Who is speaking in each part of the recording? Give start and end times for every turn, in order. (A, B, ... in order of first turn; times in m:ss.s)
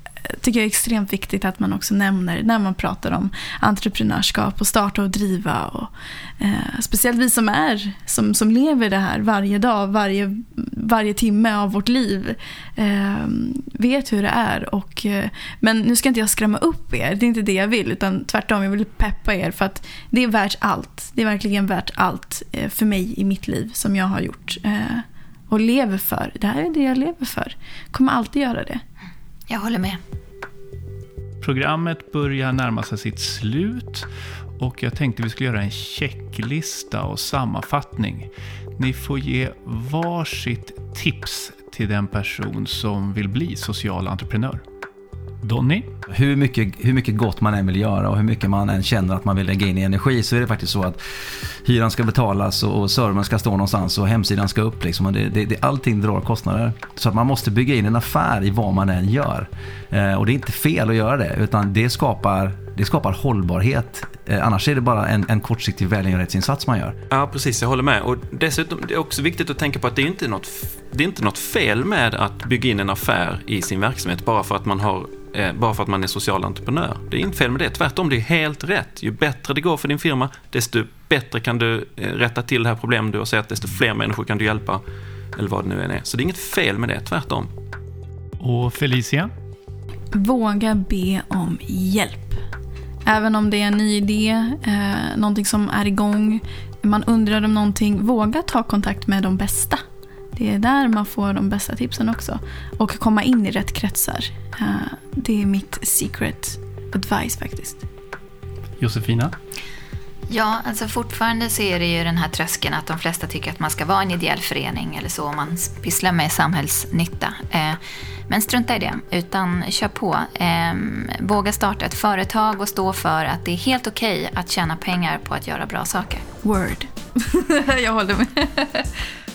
0:00.3-0:28.8 A
0:29.5-0:30.0 B
0:31.4-0:34.1 C
0:34.6-0:44.6 C
0:45.4-0:45.9 C
0:46.1-0:51.0 D
0:51.6-1:07.0 D
1:07.1-1:24.8 E
1:25.3-1:27.5 E
1:28.4-1:29.3 C
1:30.1-1:32.4 A
1:33.0-1:39.8 A
1:40.3-1:47.8 A
1:48.8-1:49.3 C
1:50.3-2:06.2 B
2:06.4-2:08.9 A